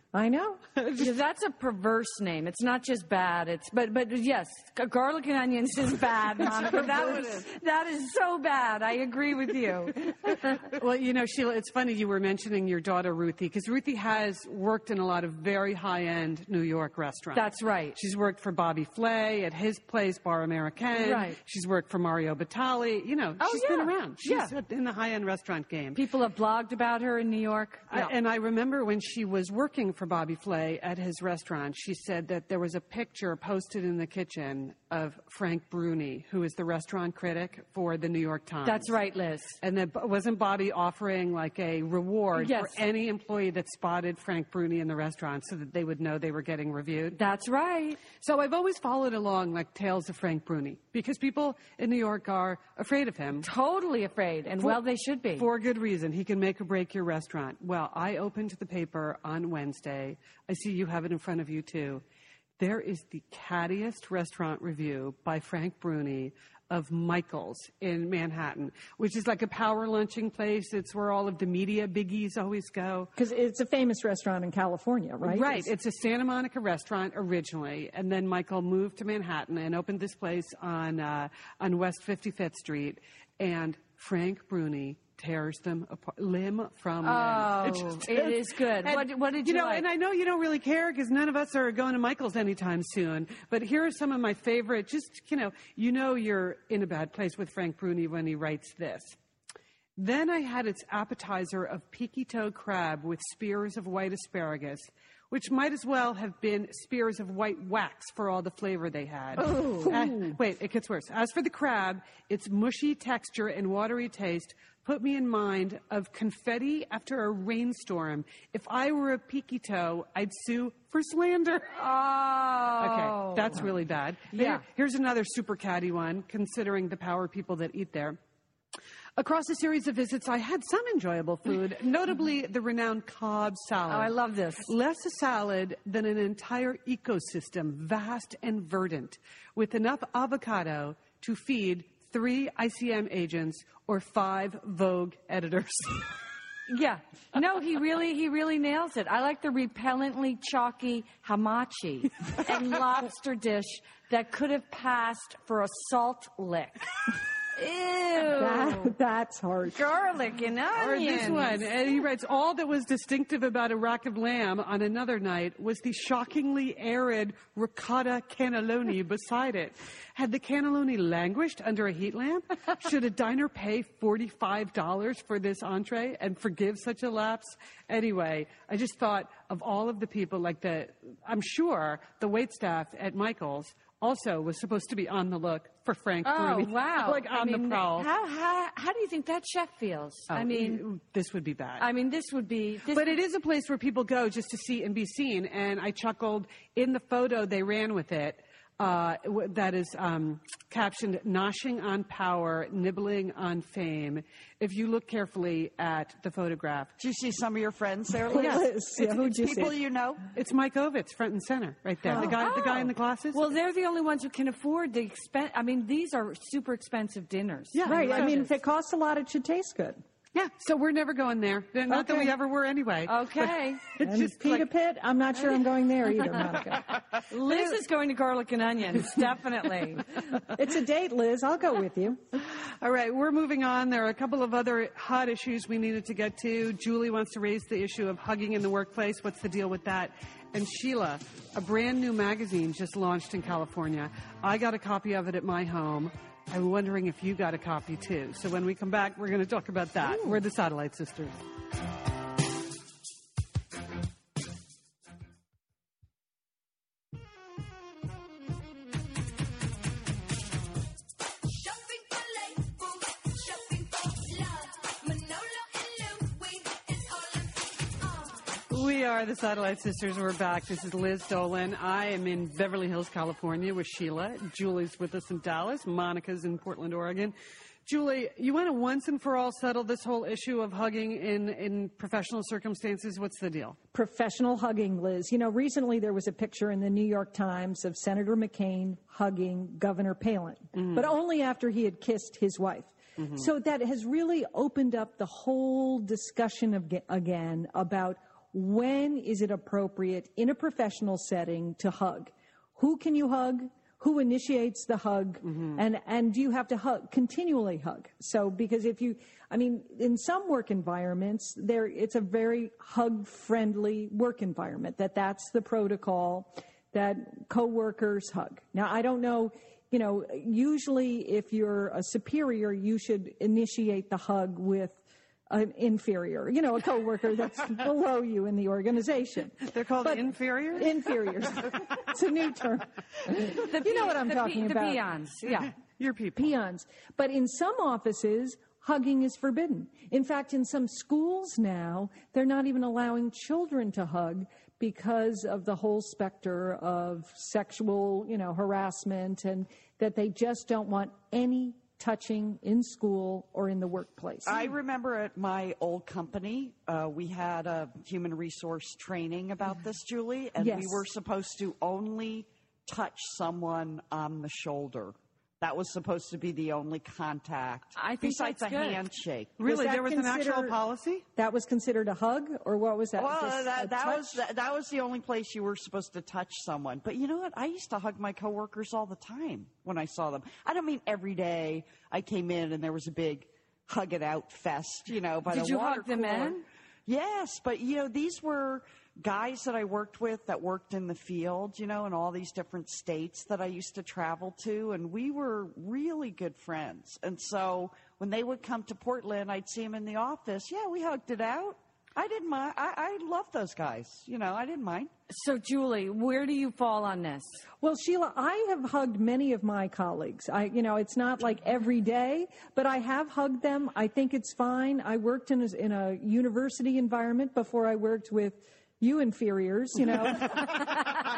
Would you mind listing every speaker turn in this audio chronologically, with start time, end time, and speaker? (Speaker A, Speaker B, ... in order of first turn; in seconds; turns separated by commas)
Speaker A: 0.1-0.6, Speaker B: 0.8-1.1, Speaker C: 0.9-10.7, Speaker D: 6.7-7.4, Speaker B: 10.6-26.0, Speaker C: 17.3-18.0, Speaker C: 20.9-21.4, Speaker C: 23.4-24.5, Speaker C: 25.9-28.1, Speaker B: 27.9-38.9, Speaker C: 38.6-39.6, Speaker B: 39.6-47.2, Speaker C: 42.3-42.8, Speaker C: 47.1-48.0, Speaker B: 48.1-53.5, Speaker C: 53.4-55.5, Speaker B: 55.4-62.0, Speaker B: 62.6-73.1, Speaker A: 73.2-75.7, Speaker B: 75.2-99.2, Speaker C: 87.0-89.8, Speaker B: 100.0-121.8, Speaker A: 109.4-110.3, Speaker C: 109.5-109.9, Speaker C: 121.7-123.7, Speaker B: 122.8-128.2, Speaker C: 124.3-124.6, Speaker B: 129.2-134.1, Speaker C: 133.9-134.7, Speaker B: 134.6-146.1, Speaker C: 146.7-156.8, Speaker C: 157.5-158.9, Speaker A: 158.3-159.8, Speaker C: 159.7-161.7, Speaker B: 160.7-188.1, Speaker C: 186.2-190.8, Speaker B: 190.3-191.8, Speaker C: 191.8-193.1, Speaker B: 192.9-206.9, Speaker D: 207.0-210.2, Speaker A: 208.2-209.8, Speaker B: 208.3-208.6, Speaker B: 210.3-213.4, Speaker A: 212.1-212.4, Speaker C: 212.1-218.5, Speaker B: 217.7-218.3, Speaker A: 217.8-220.0, Speaker B: 220.3-224.7, Speaker A: 221.9-222.3, Speaker C: 223.1-223.8, Speaker A: 224.0-227.8, Speaker C: 227.3-230.1, Speaker A: 230.3-232.2, Speaker B: 232.4-251.4, Speaker A: 250.0-250.4, Speaker E: 261.5-268.3, Speaker B: 268.7-277.3, Speaker B: 277.9-283.8, Speaker A: 283.9-335.1, Speaker B: 290.8-291.1, Speaker B: 293.2-293.5, Speaker B: 305.5-305.8, Speaker B: 329.7-330.9, Speaker C: 333.4-335.7, Speaker B: 335.4-336.5, Speaker A: 336.4-354.7, Speaker D: 354.4-369.6, Speaker A: 360.6-361.1, Speaker C: 367.9-369.0, Speaker B: 369.6-371.2, Speaker A: 369.6-370.8, Speaker A: 371.4-374.4, Speaker D: 373.2-405.1, Speaker C: 385.5-386.6, Speaker C: 405.3-407.6, Speaker A: 407.8-421.0